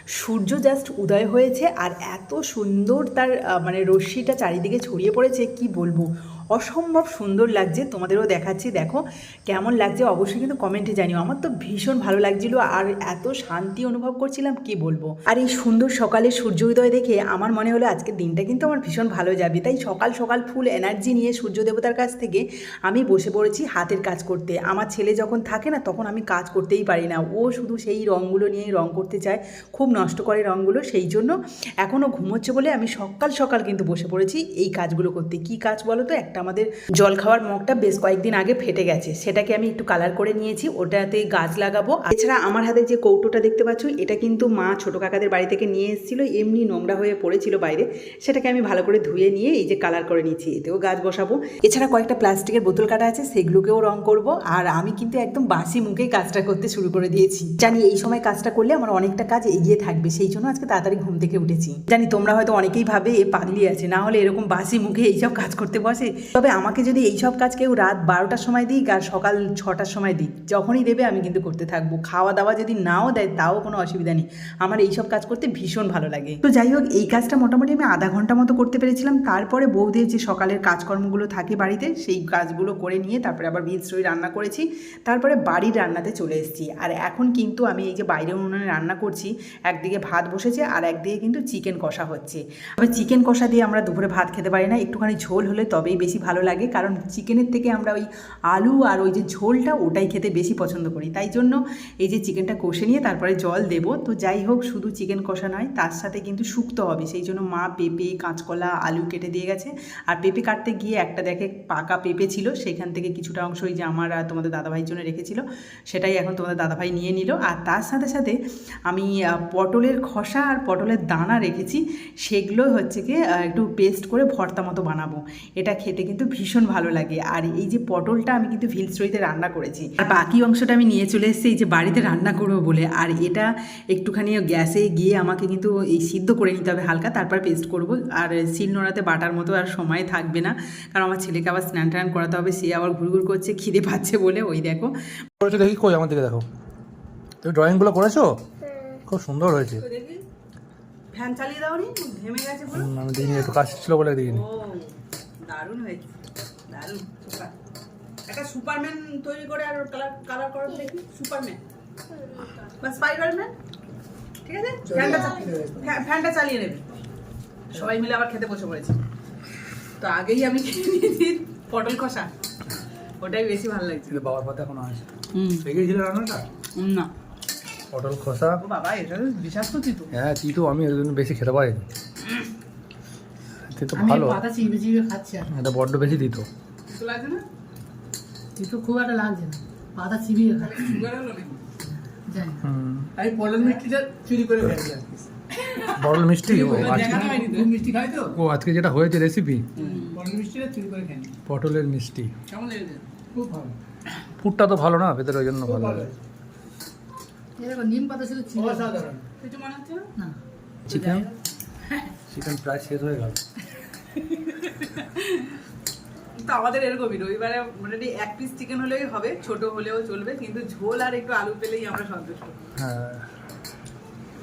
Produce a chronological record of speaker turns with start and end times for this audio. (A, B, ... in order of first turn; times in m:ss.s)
0:00.2-1:58.4 A
1:58.9-2:24.9 A
2:25.4-2:26.5 B
2:27.4-2:28.4 B
2:29.1-2:29.8 B
2:29.8-2:30.2 A
2:31.1-2:32.9 A
2:32.7-2:34.4 B
2:34.3-2:34.9 A
2:35.4-2:36.1 A
2:36.7-2:37.5 A
2:38.3-2:41.6 A
2:42.6-2:43.5 A
2:44.4-2:46.8 A
2:44.9-2:46.0 C
2:47.7-2:49.0 A
2:50.0-2:52.3 A
2:53.2-2:54.2 A
2:54.1-2:55.1 B
2:55.3-2:55.7 A
2:55.6-2:56.4 B
2:56.8-2:57.1 A
2:57.9-2:58.6 B
2:58.6-3:00.1 A
3:00.1-3:01.9 B
3:03.7-3:04.4 B
3:03.9-3:05.5 D
3:05.5-3:06.5 B
3:06.9-3:07.4 A
3:08.6-3:11.1 D
3:10.7-3:11.6 A
3:12.3-3:12.6 D
3:12.6-3:13.1 B
3:13.2-3:15.3 C
3:13.6-3:13.8 A
3:15.5-3:16.0 A
3:16.0-3:17.3 B
3:16.5-3:18.4 C
3:16.6-3:17.7 A
3:17.2-3:17.7 D
3:18.3-3:19.7 B
3:19.8-3:20.2 A
3:19.9-3:21.4 C
3:21.5-3:22.3 B
3:22.5-3:23.0 A
3:23.4-3:23.7 C
3:24.4-3:26.1 B
3:25.7-3:26.1 C
3:27.6-3:29.2 D
3:28.6-3:29.2 C
3:29.4-3:30.1 A
3:30.9-3:31.3 B
3:30.9-3:31.3 A
3:32.3-3:33.4 B
3:34.1-3:35.5 A
3:36.4-3:42.6 A
3:42.8-3:43.3 B